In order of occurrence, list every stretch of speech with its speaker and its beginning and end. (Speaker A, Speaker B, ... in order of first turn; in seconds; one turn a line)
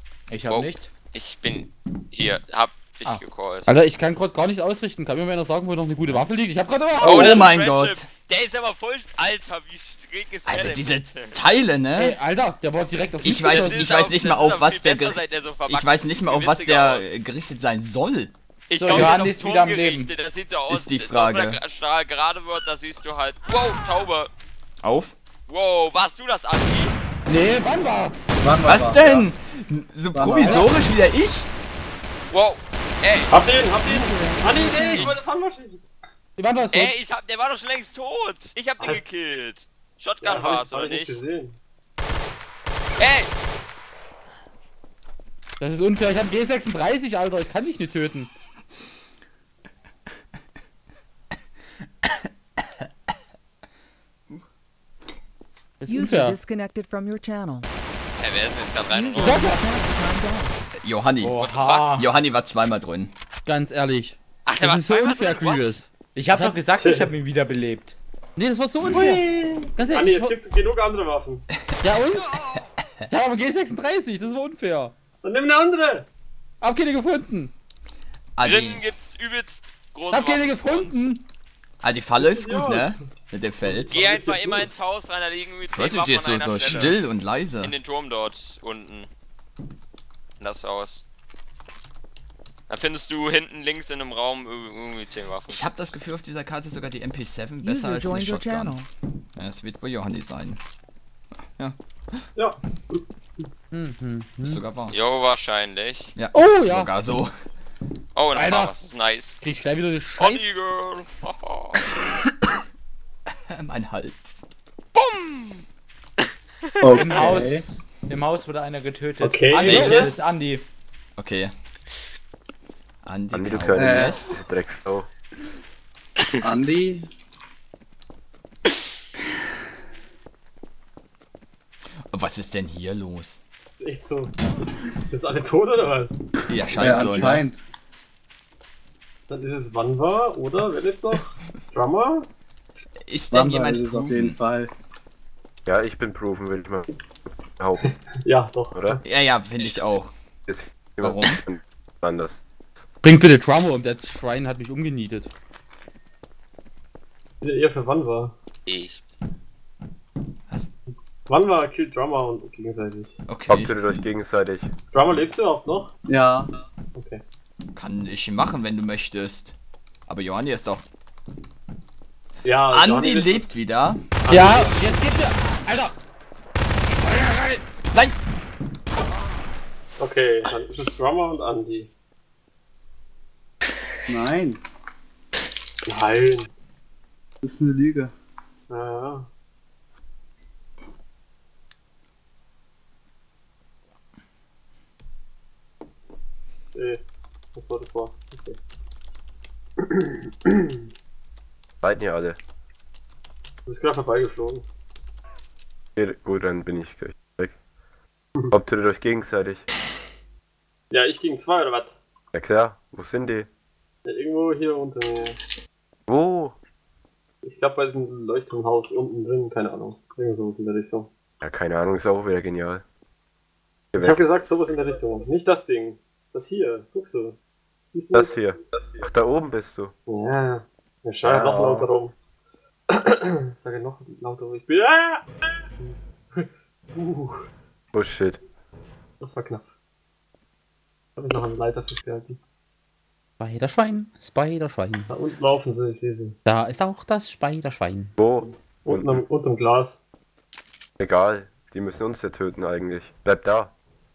Speaker A: 0.3-0.9
Speaker B: 0.5-3.7
Speaker C: 3.7-7.5
Speaker D: 7.0-8.1
Speaker B: 7.0-11.4
Speaker D: 10.4-12.2
Speaker C: 11.9-13.8
Speaker D: 13.2-18.3
Speaker B: 13.2-17.1
Speaker B: 18.7-24.3
Speaker A: 18.7-20.1
Speaker D: 20.7-21.6
Speaker D: 24.8-25.1
Speaker B: 25.5-26.9
Speaker C: 27.2-28.1
Speaker E: 28.4-29.3
Speaker D: 28.6-31.5
Speaker E: 30.1-30.7
Speaker C: 30.4-30.7
Speaker B: 32.3-33.3
Speaker F: 33.3-35.8
Speaker G: 33.8-35.2
Speaker B: 34.9-35.1
Speaker C: 36.4-36.9
Speaker B: 36.7-41.2
Speaker F: 40.2-41.6
Speaker B: 43.0-43.3
Speaker C: 45.6-48.3
Speaker C: 55.8-56.4
Speaker G: 55.9-57.7
Speaker B: 58.2-59.4
Speaker G: 58.9-60.6
Speaker C: 59.2-59.7
Speaker D: 60.8-61.4
Speaker A: 61.2-62.1
Speaker B: 61.4-61.9
Speaker D: 62.0-63.1
Speaker C: 63.5-66.5
Speaker B: 64.5-65.8
Speaker A: 66.1-68.0
Speaker F: 66.7-67.1
Speaker C: 68.4-70.3
Speaker D: 68.8-69.1
Speaker F: 68.9-71.5
Speaker C: 71.8-72.4
Speaker C: 73.1-74.9
Speaker F: 75.2-76.1
Speaker C: 76.6-77.5
Speaker D: 78.4-78.8
Speaker B: 78.4-81.0
Speaker C: 80.1-81.2
Speaker D: 81.8-84.3
Speaker F: 82.2-83.0
Speaker F: 83.6-84.7
Speaker B: 83.9-87.0
Speaker D: 85.7-87.7
Speaker B: 87.6-89.1
Speaker B: 90.4-91.0
Speaker B: 92.7-95.6
Speaker D: 95.5-98.8
Speaker G: 97.6-98.9
Speaker D: 99.3-100.6
Speaker D: 101.4-102.2
Speaker F: 102.3-103.0
Speaker C: 103.7-104.6
Speaker D: 104.4-105.0
Speaker B: 104.9-106.1
Speaker D: 106.2-107.3
Speaker C: 106.3-106.9
Speaker B: 108.1-109.4
Speaker C: 108.3-108.7
Speaker C: 109.4-110.5
Speaker B: 110.2-111.8
Speaker D: 113.5-114.4
Speaker B: 114.9-115.6
Speaker B: 116.8-117.1
Speaker E: 116.8-117.7
Speaker A: 117.0-120.6
Speaker F: 119.2-120.2
Speaker D: 119.7-120.1
Speaker C: 119.7-120.1
Speaker D: 121.2-121.5
Speaker D: 123.0-124.4
Speaker H: 123.3-125.1
Speaker E: 123.8-124.2
Speaker E: 126.4-127.1
Speaker D: 132.1-133.4
Speaker F: 133.8-134.3
Speaker F: 135.1-136.2
Speaker D: 136.5-137.4
Speaker E: 136.8-137.6
Speaker F: 136.9-137.2
Speaker F: 139.3-142.3
Speaker D: 143.1-144.4
Speaker E: 143.3-144.7
Speaker H: 145.7-146.9
Speaker H: 147.6-147.8
Speaker F: 148.2-149.0
Speaker H: 148.7-149.0
Speaker D: 149.0-150.1
Speaker H: 150.5-152.4
Speaker D: 151.0-151.4
Speaker C: 153.0-155.3
Speaker F: 157.4-158.3
Speaker B: 158.7-159.0
Speaker F: 161.3-163.2
Speaker D: 163.3-163.8
Speaker H: 163.5-164.7
Speaker F: 164.9-165.9
Speaker E: 166.1-166.5
Speaker F: 166.9-167.2
Speaker D: 167.8-169.6
Speaker D: 170.1-170.8
Speaker F: 172.4-173.6
Speaker D: 172.7-174.1
Speaker F: 174.2-175.0
Speaker C: 174.3-175.9
Speaker C: 176.9-177.6
Speaker F: 180.0-181.9
Speaker E: 184.1-184.6
Speaker F: 185.8-186.5
Speaker E: 187.4-188.1
Speaker F: 188.7-189.3
Speaker F: 196.7-197.0
Speaker F: 197.5-198.6
Speaker F: 199.8-200.8
Speaker H: 201.8-202.4
Speaker F: 203.7-204.6
Speaker H: 205.9-207.5
Speaker H: 208.5-209.7
Speaker F: 210.9-211.9
Speaker H: 212.3-213.5
Speaker F: 214.0-215.4
Speaker H: 216.1-216.5
Speaker F: 217.4-221.1
Speaker H: 221.4-222.8
Speaker H: 223.9-224.2
Speaker F: 223.9-227.4
Speaker F: 227.9-228.4
Speaker H: 228.1-229.9
Speaker F: 230.1-232.1
Speaker H: 231.2-231.9
Speaker F: 232.9-235.3
Speaker F: 235.8-237.4
Speaker H: 237.9-238.4
Speaker F: 239.2-239.7
Speaker F: 241.2-242.4
Speaker C: 243.4-245.1
Speaker F: 245.1-246.4
Speaker C: 246.4-248.1
Speaker H: 248.2-249.2
Speaker F: 248.8-250.0
Speaker H: 251.0-253.7